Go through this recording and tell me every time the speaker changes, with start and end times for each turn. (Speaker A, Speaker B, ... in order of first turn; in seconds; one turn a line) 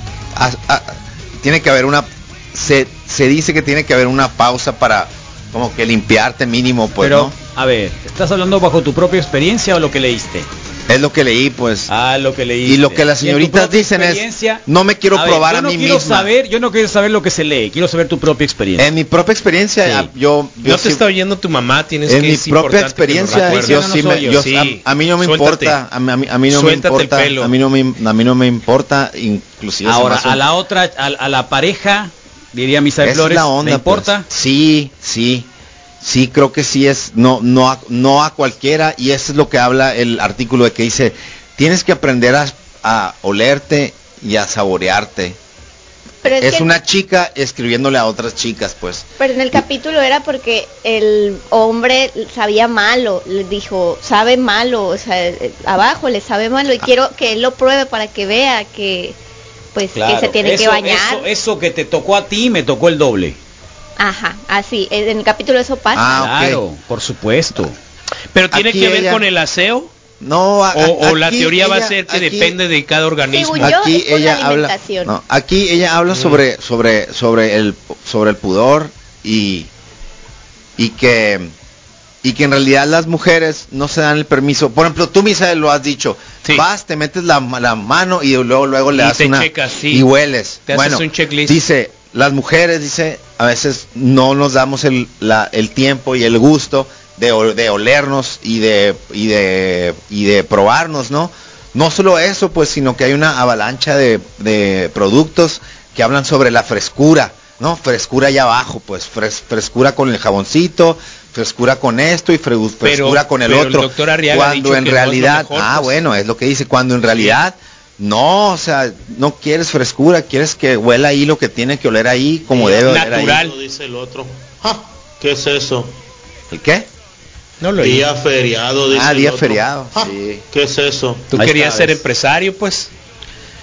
Speaker A: 0.3-7.3
Speaker B: 7.0-10.5
Speaker A: 10.9-11.9
Speaker B: 11.9-18.9
Speaker A: 12.6-16.3
Speaker A: 18.8-21.0
Speaker C: 20.6-23.8
Speaker A: 22.1-30.4
Speaker B: 23.3-24.4
Speaker C: 24.4-25.8
Speaker C: 26.5-27.5
Speaker B: 29.8-34.3
Speaker A: 33.0-35.5
Speaker A: 36.0-45.4
Speaker D: 46.2-46.7
Speaker A: 46.3-49.6
Speaker D: 49.2-59.2
Speaker D: 59.7-61.3
Speaker B: 59.9-63.4
Speaker D: 64.0-66.3
Speaker A: 65.9-66.6
Speaker B: 66.2-67.8
Speaker C: 68.3-69.9
Speaker A: 68.5-69.2
Speaker A: 70.2-72.6
Speaker C: 70.7-73.8
Speaker D: 73.3-75.1
Speaker A: 73.6-79.7
Speaker C: 76.1-76.4
Speaker A: 80.8-81.5
Speaker A: 82.2-123.5
Speaker C: 88.9-90.1
Speaker C: 90.7-91.6
Speaker C: 112.8-116.0
Speaker C: 117.1-117.4
Speaker C: 122.5-123.5
Speaker E: 123.3-125.9
Speaker A: 126.5-126.9
Speaker C: 127.6-128.1
Speaker E: 127.8-131.3
Speaker A: 128.9-130.4
Speaker C: 131.3-132.9
Speaker B: 131.3-132.0